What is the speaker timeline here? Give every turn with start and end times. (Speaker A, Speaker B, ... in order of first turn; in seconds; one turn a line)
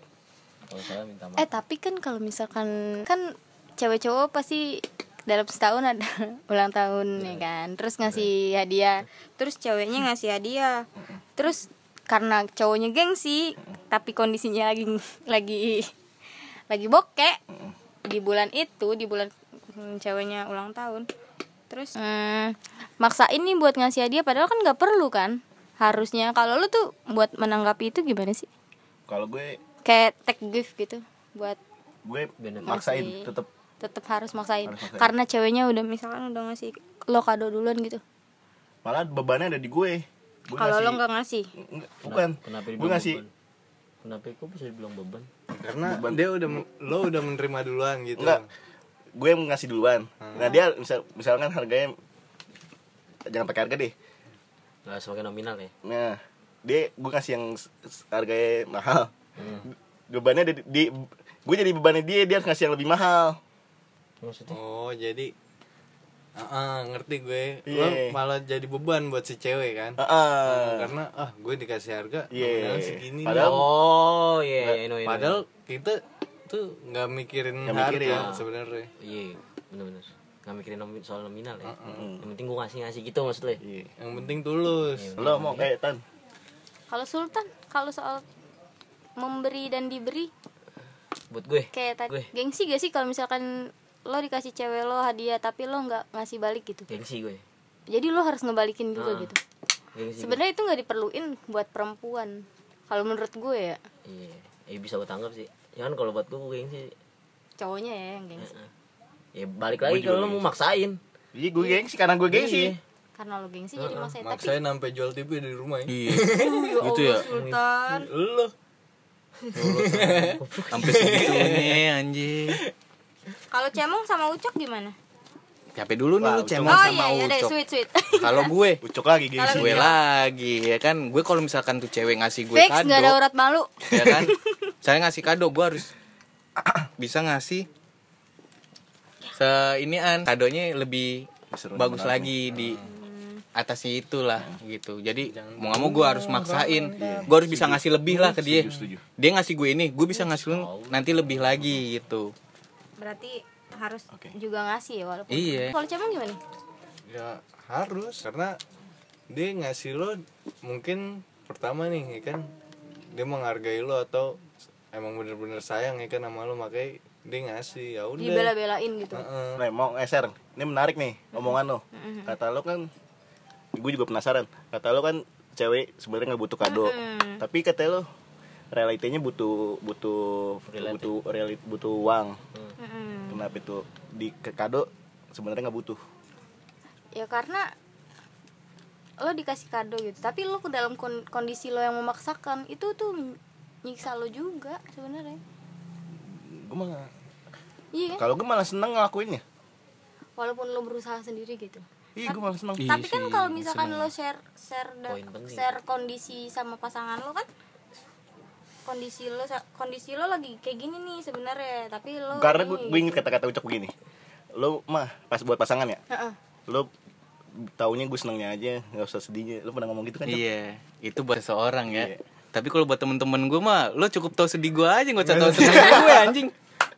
Speaker A: 0.7-1.5
Speaker B: 1.4-15.9
Speaker A: 7.2-7.5
Speaker B: 16.7-17.4
Speaker B: 18.1-21.1
Speaker B: 21.7-28.5
Speaker C: 29.1-29.6
Speaker B: 29.9-31.6
Speaker C: 32.0-33.5
Speaker A: 32.4-32.9
Speaker B: 32.7-38.0
Speaker C: 34.6-35.1
Speaker C: 38.8-41.0
Speaker B: 40.6-41.5
Speaker C: 41.6-43.2
Speaker A: 42.0-43.3
Speaker A: 44.0-45.3
Speaker D: 45.5-48.5
Speaker C: 45.8-46.6
Speaker C: 48.2-48.4
Speaker C: 49.2-52.0
Speaker D: 50.2-50.5
Speaker C: 53.3-53.9
Speaker A: 54.9-55.7
Speaker C: 55.8-59.1
Speaker A: 59.4-59.7
Speaker C: 60.1-63.4
Speaker A: 64.2-64.6
Speaker D: 64.5-65.3
Speaker D: 66.4-73.7
Speaker C: 67.7-68.2
Speaker C: 70.0-70.9
Speaker C: 72.3-73.7
Speaker A: 73.3-75.4
Speaker D: 75.0-78.9
Speaker C: 77.7-78.3
Speaker A: 77.8-78.5
Speaker A: 79.0-83.6
Speaker D: 81.7-82.0
Speaker C: 81.9-82.3
Speaker C: 83.6-83.9
Speaker D: 84.0-85.1
Speaker A: 84.9-85.7
Speaker C: 85.2-86.0
Speaker B: 86.9-88.2
Speaker B: 89.2-90.3
Speaker A: 91.3-92.3
Speaker B: 91.7-96.9
Speaker A: 96.9-97.4
Speaker B: 97.9-99.4
Speaker A: 99.0-99.3
Speaker A: 100.0-100.4
Speaker B: 100.2-103.8
Speaker A: 104.1-106.9
Speaker B: 107.6-108.6
Speaker A: 108.4-108.7
Speaker A: 109.3-111.0
Speaker C: 109.8-110.5
Speaker C: 111.3-112.7
Speaker A: 112.3-112.8
Speaker B: 113.2-114.6
Speaker A: 113.8-114.1
Speaker D: 114.2-116.8
Speaker E: 115.9-117.3
Speaker B: 116.3-118.1
Speaker A: 117.3-117.7
Speaker D: 118.1-118.5
Speaker A: 119.5-121.4
Speaker D: 119.6-121.8
Speaker E: 120.0-122.6
Speaker B: 123.5-125.0
Speaker E: 125.8-127.5
Speaker C: 126.2-127.0
Speaker B: 126.7-128.5
Speaker E: 128.2-128.8
Speaker C: 128.8-129.9
Speaker B: 129.4-130.0
Speaker E: 129.5-133.2
Speaker B: 132.5-134.6
Speaker E: 133.9-135.9
Speaker E: 137.0-137.7
Speaker E: 139.4-142.8
Speaker C: 141.5-142.4
Speaker D: 142.5-142.9
Speaker B: 142.8-143.4
Speaker E: 143.6-152.3
Speaker D: 145.2-147.5
Speaker C: 147.0-149.0
Speaker D: 148.3-148.8
Speaker A: 150.3-151.8
Speaker B: 153.0-156.4
Speaker E: 155.3-155.7
Speaker D: 157.1-158.6
Speaker D: 159.3-162.5
Speaker D: 163.1-168.5
Speaker B: 168.2-169.3
Speaker D: 169.1-169.6
Speaker C: 169.6-172.9
Speaker B: 171.4-172.3
Speaker C: 173.8-178.1
Speaker B: 176.6-177.4
Speaker C: 178.7-182.4
Speaker A: 180.7-181.1
Speaker B: 182.8-183.4
Speaker C: 183.3-186.0
Speaker B: 187.2-187.7
Speaker B: 189.2-195.4
Speaker C: 196.3-197.1
Speaker B: 197.9-198.2
Speaker C: 198.2-199.4
Speaker B: 200.4-207.5
Speaker C: 202.2-202.9
Speaker E: 202.8-204.1
Speaker A: 205.1-205.8
Speaker B: 208.8-213.2
Speaker C: 212.3-213.9
Speaker C: 214.6-216.0
Speaker C: 217.6-220.4
Speaker E: 220.2-226.5
Speaker C: 221.9-222.2
Speaker D: 225.2-226.3